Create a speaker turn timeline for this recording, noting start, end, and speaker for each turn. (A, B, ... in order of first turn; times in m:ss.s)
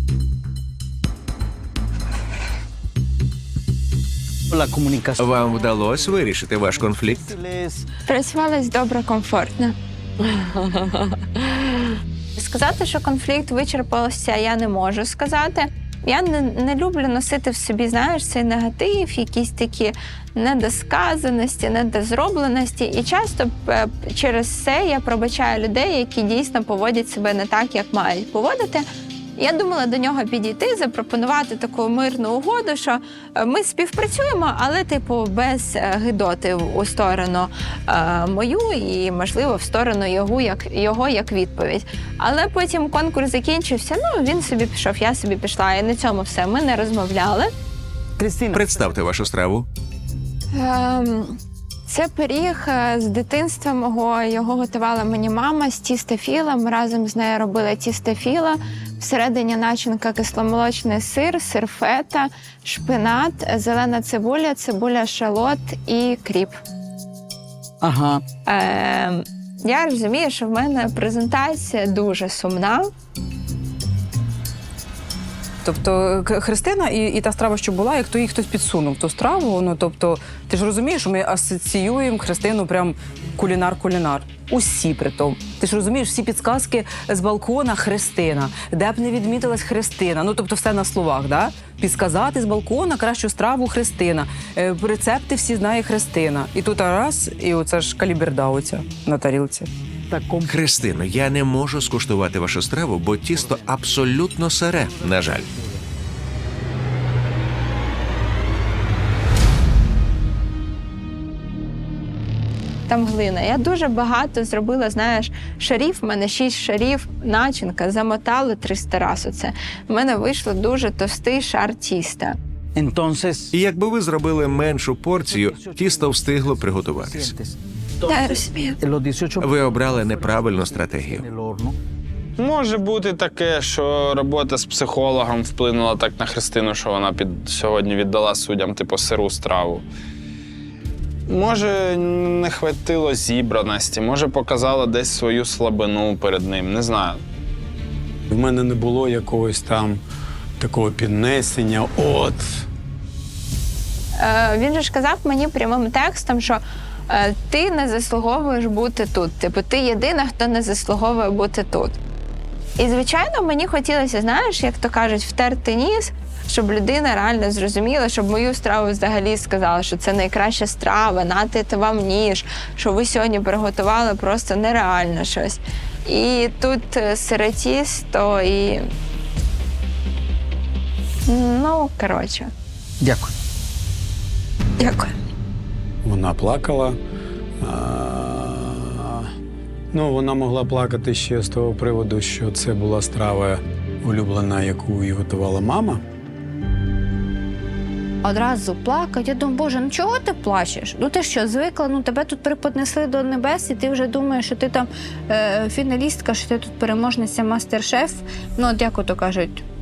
0:04.5-0:07.8 A
0:05.2-0:07.3 B
0:08.1-0:09.8 C
0:12.4-0:28.8 C
0:29.4-0:47.5 C
0:48.2-0:48.6 A
0:48.5-0:49.7 B
0:50.5-1:06.6 C
1:07.8-1:08.2 A
1:08.5-1:12.9 C
1:15.6-1:39.7 D
1:40.1-1:40.5 A
1:40.5-1:45.5 B
1:43.3-1:43.8 A
1:44.8-1:45.6 A
1:52.9-2:02.4 C
2:02.8-2:03.5 A
2:03.5-2:07.4 B
2:05.2-2:07.5 A
2:08.0-2:08.8 C
2:08.8-2:11.8 A
2:09.4-2:11.2 B
2:12.4-2:19.8 E
2:21.3-2:27.2 E
2:28.3-2:30.0 F
2:30.6-2:32.6 F
2:34.2-2:42.0 C
2:42.8-2:58.8 C
3:01.3-3:02.5 C
3:03.0-3:03.3 A
3:04.8-3:05.1 C
3:06.0-3:07.0 F
3:07.6-3:09.3 F
3:09.9-3:16.0 F
3:18.2-3:29.6 G